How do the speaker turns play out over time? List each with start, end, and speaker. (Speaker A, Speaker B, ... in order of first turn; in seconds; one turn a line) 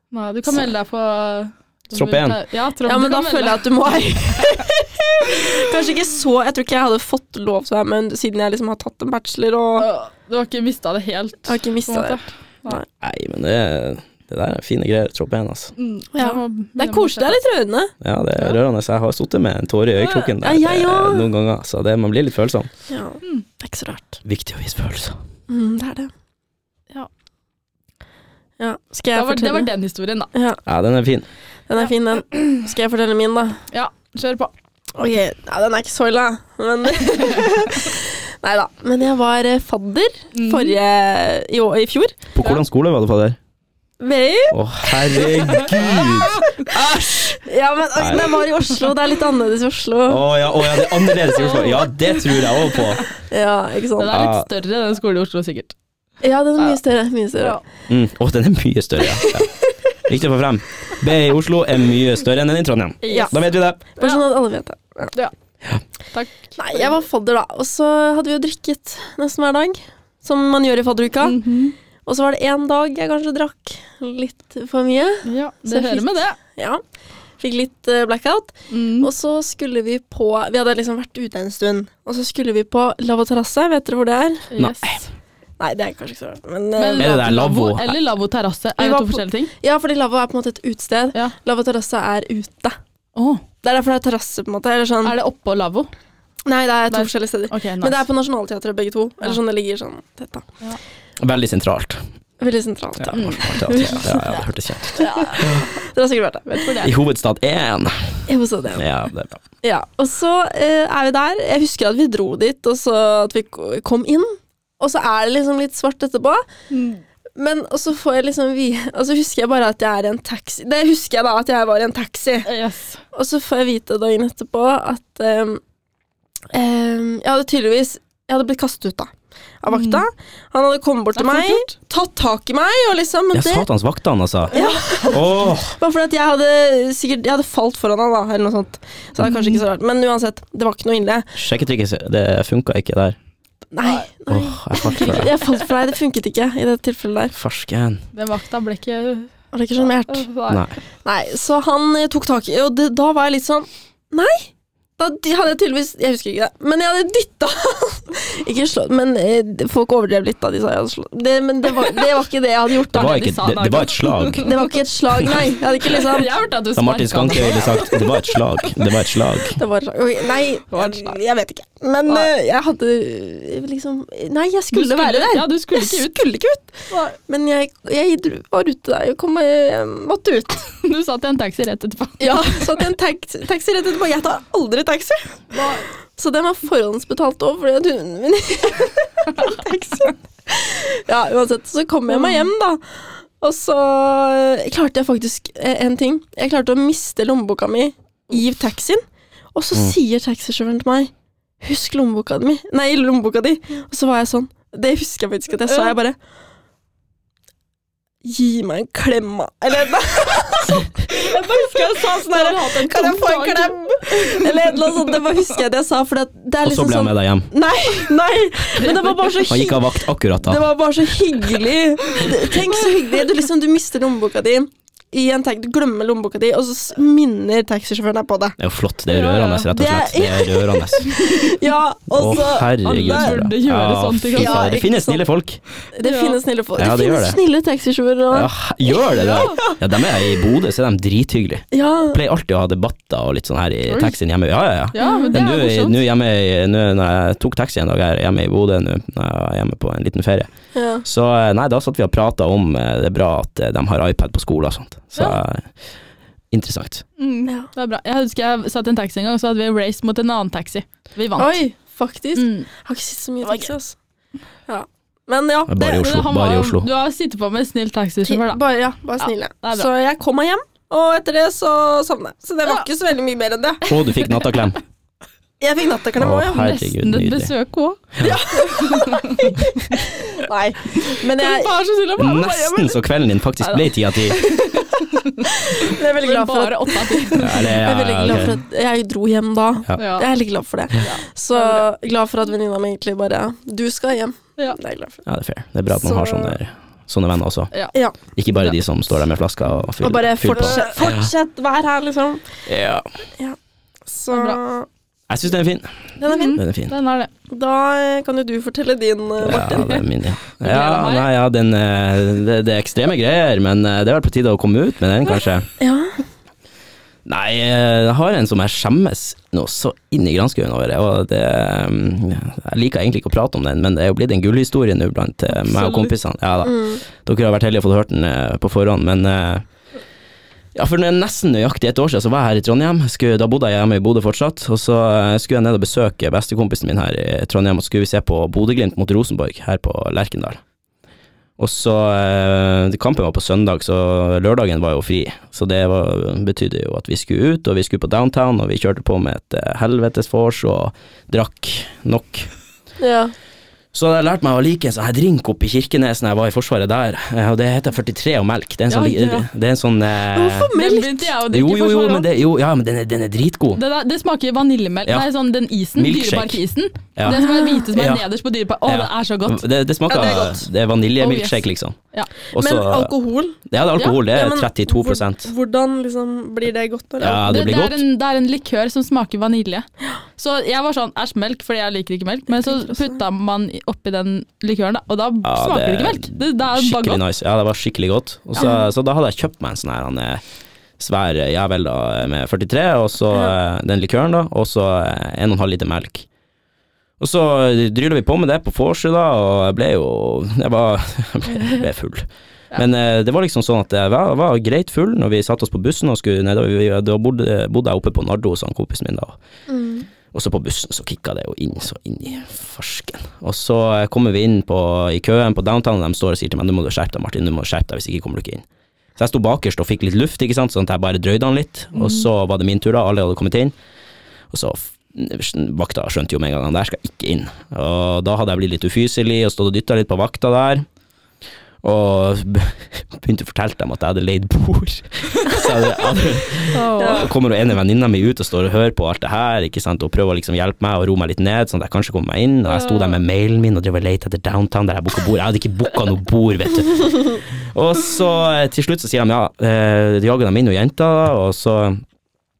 Speaker A: 0.1-4.6
Speaker B: 1.9-2.4
Speaker C: 2.8-9.9
Speaker A: 9.8-12.8
Speaker C: 11.5-12.8
Speaker B: 13.0-15.7
Speaker A: 15.8-17.4
Speaker C: 16.1-17.9
Speaker B: 18.0-22.7
Speaker C: 20.0-21.3
Speaker C: 22.9-24.2
Speaker B: 24.2-25.2
Speaker C: 25.5-26.1
Speaker C: 28.6-29.7
Speaker A: 29.1-30.3
Speaker C: 30.3-30.6
Speaker B: 30.7-31.3
Speaker C: 31.7-33.6
Speaker A: 33.7-34.5
Speaker C: 35.0-42.2
Speaker A: 40.3-40.8
Speaker B: 42.3-43.4
Speaker C: 44.0-46.1
Speaker B: 44.5-47.4
Speaker A: 46.3-46.7
Speaker C: 46.8-50.3
Speaker B: 48.0-48.4
Speaker B: 50.1-53.0
Speaker A: 51.3-53.1
Speaker C: 53.3-54.1
Speaker A: 54.0-55.8
Speaker B: 54.1-54.5
Speaker C: 56.2-57.6
Speaker A: 57.4-57.6
Speaker B: 57.9-59.5
Speaker B: 60.1-63.8
Speaker A: 63.0-63.4
Speaker C: 63.1-65.1
Speaker A: 66.1-66.9
Speaker C: 66.6-71.5
Speaker A: 71.2-71.8
Speaker C: 72.0-76.8
Speaker A: 75.2-76.4
Speaker C: 77.4-84.5
Speaker A: 78.7-79.1
Speaker A: 84.5-85.1
Speaker B: 84.6-85.0
Speaker C: 85.6-87.1
Speaker A: 86.8-89.5
Speaker B: 87.0-88.0
Speaker C: 88.8-92.8
Speaker A: 93.2-93.4
Speaker C: 93.6-95.1
Speaker A: 95.0-95.9
Speaker C: 96.5-100.6
Speaker A: 96.9-98.0
Speaker B: 101.2-102.0
Speaker C: 102.4-104.3
Speaker B: 103.0-105.7
Speaker A: 103.1-104.0
Speaker A: 105.0-105.5
Speaker C: 105.0-106.8
Speaker A: 106.5-107.0
Speaker B: 106.8-108.0
Speaker C: 108.3-108.9
Speaker B: 108.8-109.4
Speaker C: 109.6-116.4
Speaker A: 116.7-117.0
Speaker C: 117.4-122.5
Speaker A: 122.5-123.0
Speaker C: 123.1-125.6
Speaker C: 126.5-129.1
Speaker C: 129.6-133.7
Speaker A: 129.7-130.1
Speaker A: 131.2-131.7
Speaker B: 133.3-134.5
Speaker A: 134.5-135.2
Speaker C: 134.5-141.3
Speaker B: 135.1-135.8
Speaker A: 139.2-139.6
Speaker B: 141.3-143.2
Speaker C: 143.7-147.4
Speaker B: 144.3-145.3
Speaker A: 144.8-145.6
Speaker B: 147.3-148.0
Speaker A: 148.1-150.6
Speaker C: 149.5-150.3
Speaker B: 150.5-150.8
Speaker C: 151.1-163.2
Speaker B: 162.9-164.5
Speaker A: 162.9-164.7
Speaker C: 164.4-166.3
Speaker A: 165.8-168.8
Speaker B: 166.8-169.6
Speaker C: 169.6-180.7
Speaker A: 170.7-171.2
Speaker A: 174.7-176.2
Speaker A: 176.9-177.2
Speaker A: 180.8-182.7
Speaker C: 182.2-185.5
Speaker A: 185.5-185.8
Speaker C: 186.2-199.0
Speaker A: 192.1-192.4
Speaker C: 199.6-206.2
Speaker A: 205.7-206.0
Speaker C: 208.2-228.6
Speaker A: 211.2-215.3
Speaker B: 216.6-217.5
Speaker A: 218.8-219.4
Speaker B: 219.5-220.6
Speaker B: 228.6-231.4
Speaker A: 229.1-229.7
Speaker C: 229.7-233.4
Speaker B: 232.2-235.6
Speaker A: 232.9-234.7
Speaker C: 234.4-235.2
Speaker C: 235.9-238.5
Speaker A: 236.0-236.4
Speaker B: 236.8-237.4
Speaker B: 238.3-250.5
Speaker A: 239.1-239.6
Speaker C: 241.7-242.2
Speaker A: 243.9-244.2
Speaker A: 244.9-246.0
Speaker C: 245.0-245.3
Speaker C: 250.7-251.0
Speaker B: 251.0-255.7
Speaker B: 256.5-257.1
Speaker A: 257.2-261.5
Speaker C: 261.4-264.0
Speaker A: 262.4-262.7
Speaker A: 263.4-263.7
Speaker C: 264.7-266.0
Speaker B: 265.7-266.9
Speaker A: 265.8-268.6
Speaker C: 268.3-273.8
Speaker A: 269.2-269.9
Speaker B: 273.9-274.8
Speaker A: 274.2-274.5
Speaker C: 275.6-276.7
Speaker B: 276.2-277.5
Speaker A: 276.5-280.3
Speaker C: 278.2-281.8
Speaker A: 280.9-283.0
Speaker B: 282.2-284.5
Speaker A: 283.6-287.8
Speaker C: 285.5-295.2
Speaker B: 287.4-288.6
Speaker A: 290.0-290.3
Speaker A: 291.0-291.9
Speaker B: 295.3-297.7
Speaker C: 295.9-296.6
Speaker B: 298.3-301.3
Speaker C: 300.0-302.6
Speaker A: 300.5-301.0
Speaker B: 302.7-303.1
Speaker C: 304.1-304.9
Speaker A: 304.3-304.6
Speaker B: 305.3-306.9
Speaker C: 306.2-306.6
Speaker A: 306.2-307.3
Speaker C: 307.5-310.0
Speaker B: 309.4-315.7
Speaker A: 309.5-310.0
Speaker A: 310.6-311.3
Speaker C: 315.8-316.2
Speaker B: 317.2-329.6
Speaker A: 325.6-326.1
Speaker C: 326.6-327.0
Speaker B: 330.8-340.6
Speaker B: 341.6-352.5
Speaker C: 353.0-353.3
Speaker B: 353.9-360.7
Speaker A: 358.9-359.5
Speaker C: 360.3-361.4
Speaker A: 360.7-362.3
Speaker B: 361.5-363.8
Speaker A: 363.8-370.5
Speaker B: 365.9-366.6
Speaker B: 367.2-367.4
Speaker C: 367.3-367.9
Speaker B: 367.9-368.3
Speaker B: 368.9-372.0
Speaker C: 370.1-370.6
Speaker A: 371.2-372.3
Speaker B: 372.5-373.1
Speaker C: 372.6-373.6
Speaker B: 373.7-375.5
Speaker C: 374.2-377.5
Speaker B: 377.2-378.0
Speaker A: 377.4-379.9
Speaker A: 380.4-387.2
Speaker C: 382.6-383.2
Speaker B: 385.4-390.4
Speaker B: 391.0-396.3
Speaker B: 397.2-409.4
Speaker C: 409.7-410.1
Speaker B: 410.3-418.6
Speaker B: 419.2-423.7
Speaker B: 424.5-430.9
Speaker B: 431.8-452.0
Speaker A: 436.7-437.3
Speaker C: 437.0-437.3